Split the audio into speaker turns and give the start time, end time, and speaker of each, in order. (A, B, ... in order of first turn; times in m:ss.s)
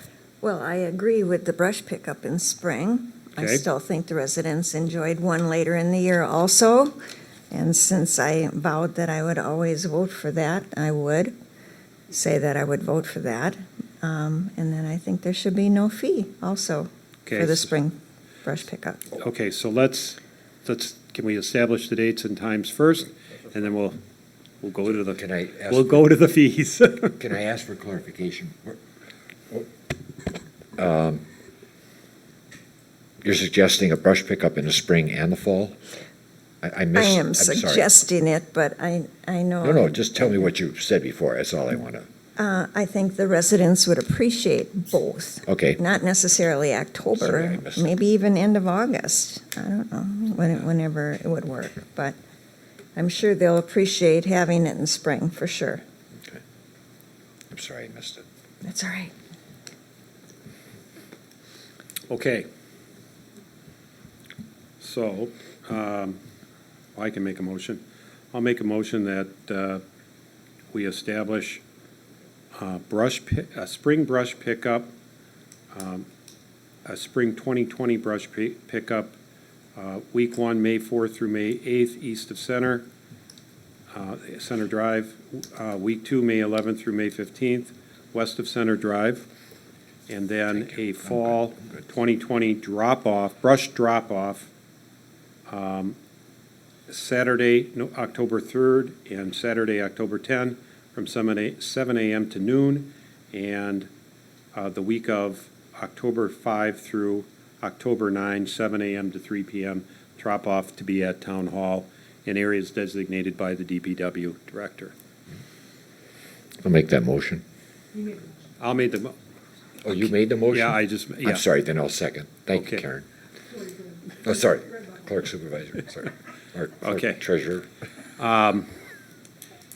0:00.4-0:07.0 A
0:03.4-0:03.6 B
0:07.5-0:11.3 A
0:12.1-0:19.1 A
0:17.2-0:17.8 B
0:19.2-0:24.0 B
0:24.6-0:27.2 B
0:25.2-0:26.1 C
0:27.2-0:28.8 C
0:30.8-0:31.2 C
0:33.2-0:35.8 C
0:36.6-0:37.9 C
0:36.9-0:40.3 A
0:39.6-0:42.0 C
0:42.4-0:52.2 A
0:45.5-0:45.8 C
0:47.1-0:47.9 C
0:53.0-0:55.8 A
0:57.5-0:58.2 C
0:58.6-0:59.1 A
1:02.1-1:02.5 B
1:04.8-1:06.2 B
1:06.9-1:09.8 B
1:10.7-1:11.6 B
1:12.5-1:14.9 B
1:15.7-1:16.1 B
1:16.8-1:19.2 B
1:19.8-1:22.9 B
1:23.9-1:29.3 B
1:30.1-1:34.5 B
1:35.5-1:36.0 B
1:36.9-1:43.9 B
1:44.5-1:54.9 B
1:56.6-1:57.4 C
1:58.6-1:59.1 B
1:59.8-2:03.0 C
1:59.9-2:01.4 B
2:02.5-2:02.8 B
2:04.2-2:07.7 C
2:06.8-2:07.2 B
2:08.2-2:08.7 B